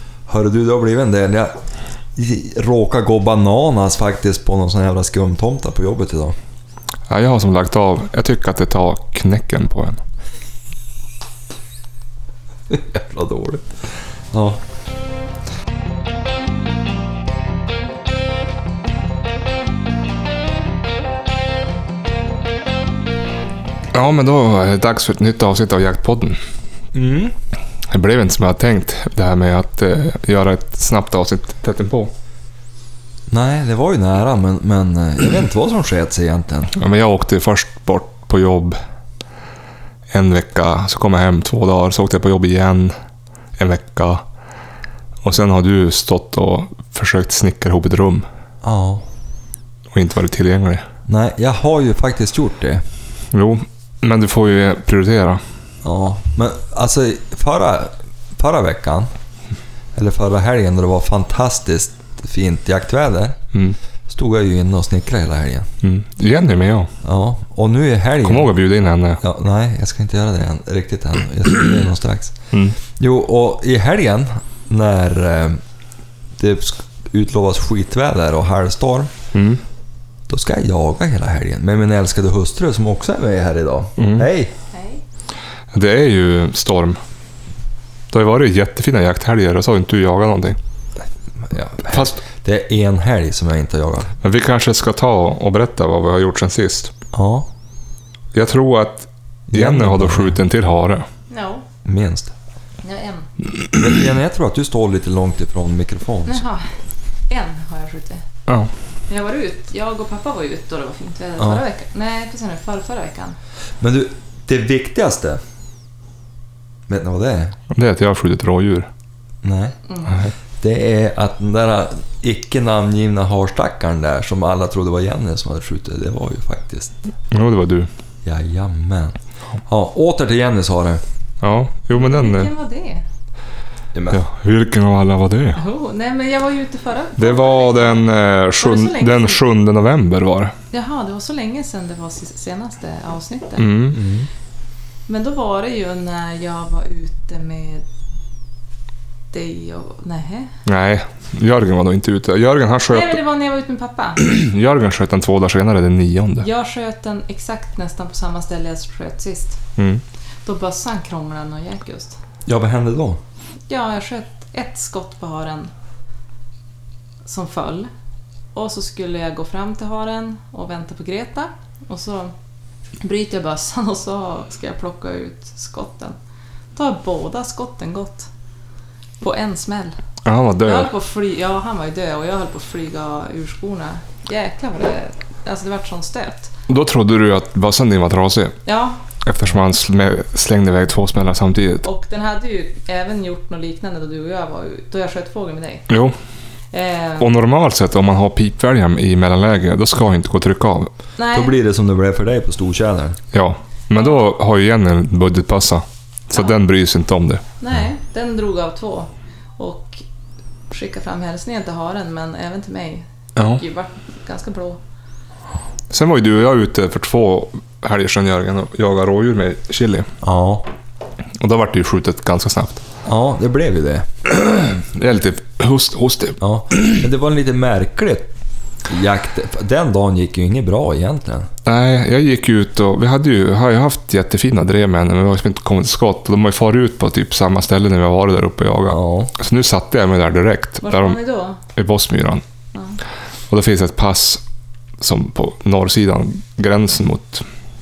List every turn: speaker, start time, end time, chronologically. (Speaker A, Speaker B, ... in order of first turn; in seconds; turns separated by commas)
Speaker A: 0.3-1.6, Speaker A: 2.1-6.3, Speaker B: 7.1-10.0, Speaker A: 12.7-14.6, Speaker B: 23.9-26.4, Speaker A: 26.9-27.3, Speaker B: 27.9-32.1, Speaker A: 33.3-36.7, Speaker B: 36.8-38.8, Speaker B: 40.1-43.0, Speaker B: 43.6-44.2, Speaker B: 45.2-48.3, Speaker A: 48.6-49.0, Speaker B: 49.9-50.9, Speaker A: 51.1-52.9, Speaker B: 53.3-55.4, Speaker A: 55.8-59.1, Speaker A: 60.0-63.4, Speaker A: 64.1-65.7, Speaker B: 65.8-66.9, Speaker A: 67.0-68.6, Speaker B: 68.2-69.2, Speaker A: 69.2-75.6, Speaker B: 72.5-72.8, Speaker A: 76.4-79.1, Speaker B: 79.3-79.6, Speaker A: 80.3-84.5, Speaker B: 84.0-84.3, Speaker C: 84.7-85.0, Speaker B: 85.7-87.0, Speaker B: 88.1-90.6, Speaker A: 91.4-94.2, Speaker B: 91.9-92.2, Speaker B: 94.2-96.9, Speaker A: 97.1-97.5, Speaker B: 98.3-101.1, Speaker A: 99.5-100.4, Speaker C: 101.3-101.7, Speaker A: 101.8-102.3, Speaker C: 102.8-103.3, Speaker A: 103.7-106.4, Speaker C: 106.3-106.8, Speaker C: 107.3-108.2, Speaker C: 109.1-113.4, Speaker A: 111.4-111.7, Speaker A: 113.8-115.4, Speaker A: 116.9-117.6, Speaker B: 117.7-118.9, Speaker A: 119.4-119.8, Speaker C: 119.9-120.2, Speaker B: 120.1-120.3, Speaker A: 120.6-127.0, Speaker B: 127.3-127.9, Speaker A: 128.2-131.0, Speaker B: 131.4-132.5, Speaker C: 131.9-133.1, Speaker A: 133.9-134.2, Speaker B: 134.1-135.6, Speaker C: 135.6-139.4, Speaker B: 137.2-140.5, Speaker C: 140.7-143.7, Speaker B: 143.6-144.0, Speaker A: 143.9-144.3, Speaker C: 145.1-147.8, Speaker C: 149.3-150.5, Speaker B: 150.7-153.2, Speaker C: 152.9-154.2, Speaker B: 154.2-156.5, Speaker C: 156.4-159.6, Speaker B: 159.8-160.0, Speaker C: 160.4-162.2, Speaker A: 162.5-163.2, Speaker C: 163.7-165.7, Speaker C: 167.2-167.9, Speaker C: 168.5-172.3, Speaker C: 173.0-176.2, Speaker C: 176.8-178.3, Speaker C: 179.2-180.0, Speaker B: 180.2-180.9, Speaker C: 180.7-186.5, Speaker B: 186.7-188.6, Speaker C: 188.7-189.0, Speaker B: 189.2-191.9, Speaker C: 191.8-195.9, Speaker B: 195.9-196.2, Speaker C: 196.7-197.3, Speaker B: 197.2-200.9, Speaker C: 201.2-201.6, Speaker A: 201.3-203.2, Speaker B: 203.3-207.4, Speaker C: 207.6-210.0, Speaker C: 210.7-214.8, Speaker B: 213.4-213.6, Speaker B: 215.9-220.1, Speaker A: 220.2-220.7, Speaker B: 221.4-222.8, Speaker A: 223.1-224.1, Speaker B: 224.3-227.0, Speaker A: 226.4-228.3, Speaker A: 228.8-231.5, Speaker B: 231.7-241.2, Speaker A: 238.9-239.3, Speaker C: 240.8-241.6, Speaker B: 241.7-242.4, Speaker C: 242.7-243.0, Speaker B: 243.5-244.4, Speaker B: 245.0-247.4